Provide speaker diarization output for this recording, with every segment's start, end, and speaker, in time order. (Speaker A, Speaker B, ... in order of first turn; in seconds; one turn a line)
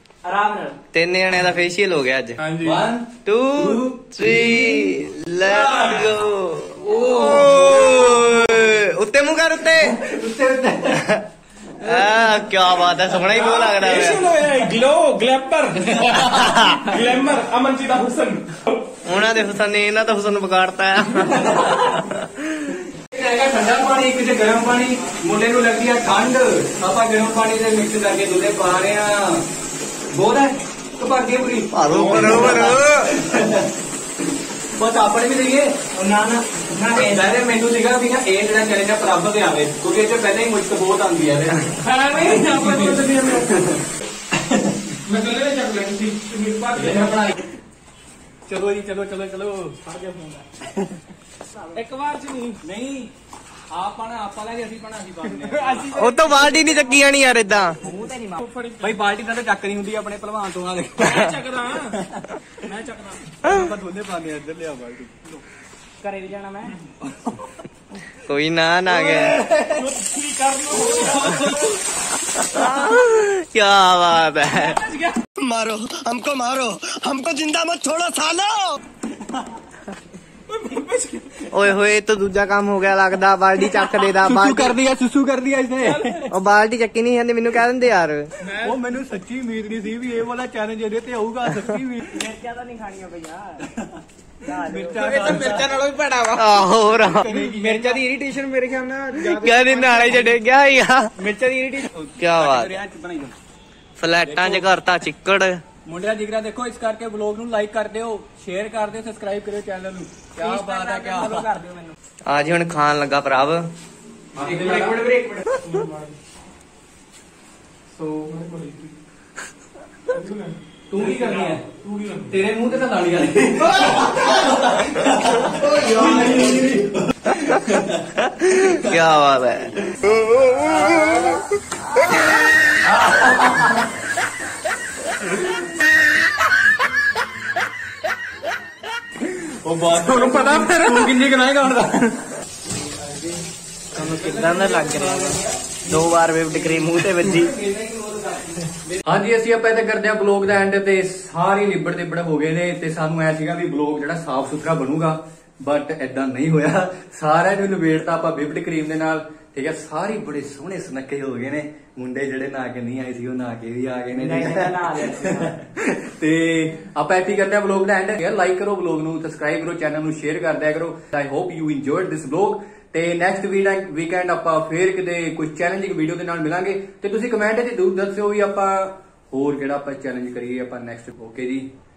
Speaker A: 0.2-0.8
Speaker B: 0.9-2.4
Speaker C: 2.4-2.9
Speaker D: 2.6-6.2
Speaker B: 3.2-10.0
Speaker D: 6.8-8.3
Speaker C: 7.0-7.7
Speaker D: 9.8-11.0
Speaker B: 10.9-11.2
Speaker D: 11.8-13.6
Speaker B: 11.8-14.2
Speaker C: 13.4-18.8
Speaker D: 15.9-16.5
Speaker B: 19.0-22.4
Speaker D: 21.2-22.0
Speaker D: 22.9-29.4
Speaker D: 30.1-33.7
Speaker B: 31.7-33.1
Speaker D: 34.8-35.7
Speaker A: 35.9-37.3
Speaker D: 36.9-43.8
Speaker C: 41.8-43.7
Speaker D: 44.4-44.9
Speaker C: 45.0-47.3
Speaker D: 46.7-47.4
Speaker D: 48.5-49.8
Speaker C: 49.8-50.4
Speaker C: 51.7-52.6
Speaker D: 52.6-53.1
Speaker D: 53.7-56.4
Speaker C: 55.3-55.9
Speaker B: 55.9-57.8
Speaker A: 56.0-57.1
Speaker A: 57.8-58.4
Speaker C: 58.4-59.0
Speaker D: 58.8-61.2
Speaker C: 61.0-62.0
Speaker D: 61.9-62.4
Speaker C: 62.9-63.1
Speaker D: 63.4-65.4
Speaker A: 66.0-66.7
Speaker D: 67.0-67.5
Speaker B: 68.2-69.4
Speaker D: 68.9-69.9
Speaker C: 69.7-71.7
Speaker D: 70.8-71.7
Speaker B: 72.4-74.8
Speaker C: 74.6-75.1
Speaker E: 75.4-78.8
Speaker C: 80.5-81.5
Speaker B: 81.5-84.8
Speaker D: 83.6-86.3
Speaker C: 85.8-86.2
Speaker B: 86.3-88.3
Speaker C: 88.4-88.8
Speaker D: 88.6-92.2
Speaker A: 92.1-93.6
Speaker D: 93.8-94.0
Speaker A: 94.4-95.6
Speaker D: 94.6-95.7
Speaker C: 95.0-96.4
Speaker B: 96.3-97.3
Speaker D: 96.9-100.4
Speaker C: 97.5-98.0
Speaker B: 99.1-101.1
Speaker D: 101.2-103.3
Speaker B: 102.2-102.7
Speaker B: 104.0-105.6
Speaker D: 104.2-104.8
Speaker D: 105.8-111.7
Speaker A: 110.4-111.9
Speaker B: 112.2-113.7
Speaker D: 114.3-115.1
Speaker A: 114.5-115.4
Speaker C: 114.7-116.1
Speaker C: 117.9-118.9
Speaker C: 120.1-122.3
Speaker D: 120.9-121.6
Speaker D: 122.3-128.0
Speaker B: 125.5-126.4
Speaker B: 128.4-129.7
Speaker D: 128.6-129.0
Speaker A: 130.5-131.4
Speaker D: 133.0-133.7
Speaker D: 139.3-142.2
Speaker D: 143.9-146.0
Speaker A: 144.0-147.5
Speaker B: 144.7-145.2
Speaker B: 146.0-147.1
Speaker D: 146.5-181.7
Speaker A: 164.1-165.6